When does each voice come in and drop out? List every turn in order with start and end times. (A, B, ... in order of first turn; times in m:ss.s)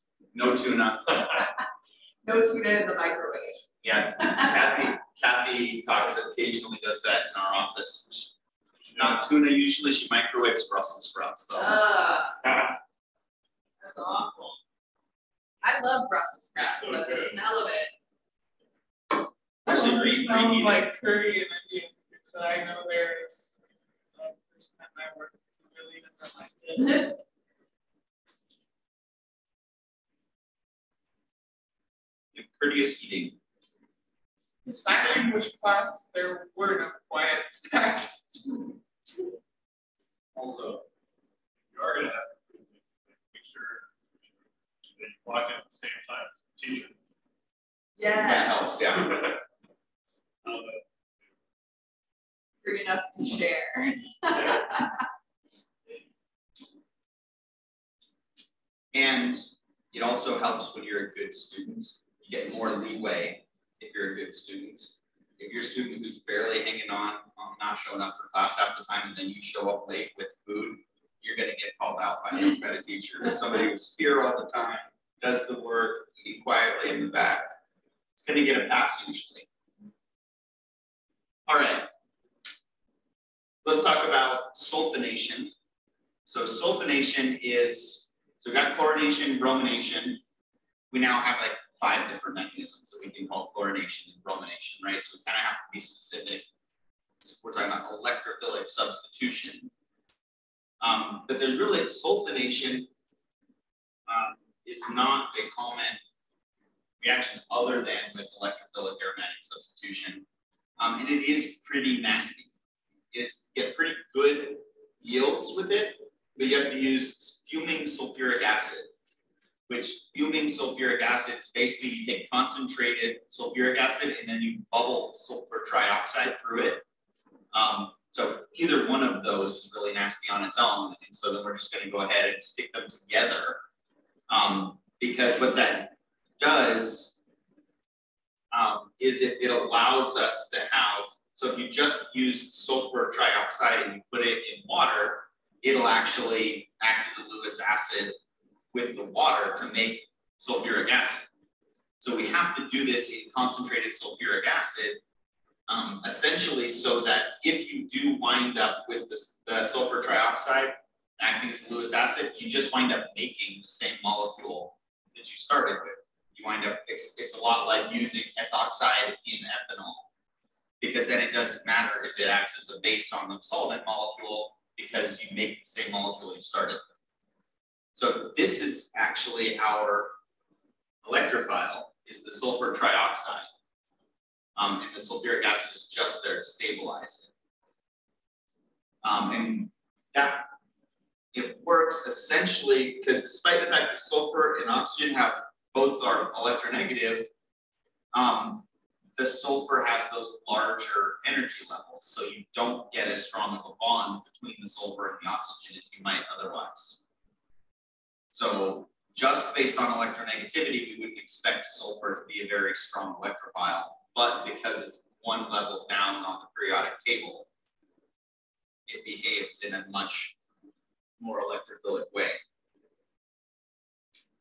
0:00.3-0:01.5 A
0:02.2-0:03.6 B
0:03.8-0:08.3 A
0:04.2-0:04.5 B
0:08.9-0:09.2 C
0:08.9-0:11.8 A
0:11.5-0:12.4 B
0:13.8-0:14.6 B
0:15.6-0:17.9 B
0:16.6-0:17.4 C
0:19.6-0:20.9 A
0:19.6-0:23.6 D
0:24.2-0:27.1 D
0:32.3-0:33.4 A
0:34.6-0:38.7 D
0:34.8-0:35.2 A
0:40.4-0:40.8 C
0:41.6-0:43.9 C
0:44.9-0:47.0 C
0:48.0-0:49.0 B
0:48.2-0:49.2 A
0:49.0-0:49.4 C
0:50.4-0:50.8 C
0:52.6-0:55.0 B
0:58.9-1:17.5 A
1:18.2-1:19.5 A
1:21.5-1:21.9 A
1:23.6-1:25.5 A
1:26.2-1:30.2 A
1:30.9-1:36.5 A
1:37.2-1:39.7 A
1:40.8-1:42.9 A
1:44.1-1:46.0 A
1:47.0-1:50.2 A
1:50.8-1:52.5 A
1:53.1-1:58.9 A
1:59.7-2:06.8 A
2:07.5-2:13.6 A
2:14.3-2:17.2 A
2:18.5-2:28.1 A
2:28.7-2:31.3 A
2:32.0-2:35.0 A
2:35.7-2:50.1 A
2:50.8-2:56.8 A
2:57.9-3:00.1 A
3:01.0-3:03.5 A
3:04.6-3:07.3 A
3:09.0-3:10.5 A
3:11.3-3:17.3 A
3:18.1-3:18.6 A
3:19.2-3:27.0 A
3:28.3-3:37.5 A
3:38.9-3:40.3 A
3:41.2-3:42.4 A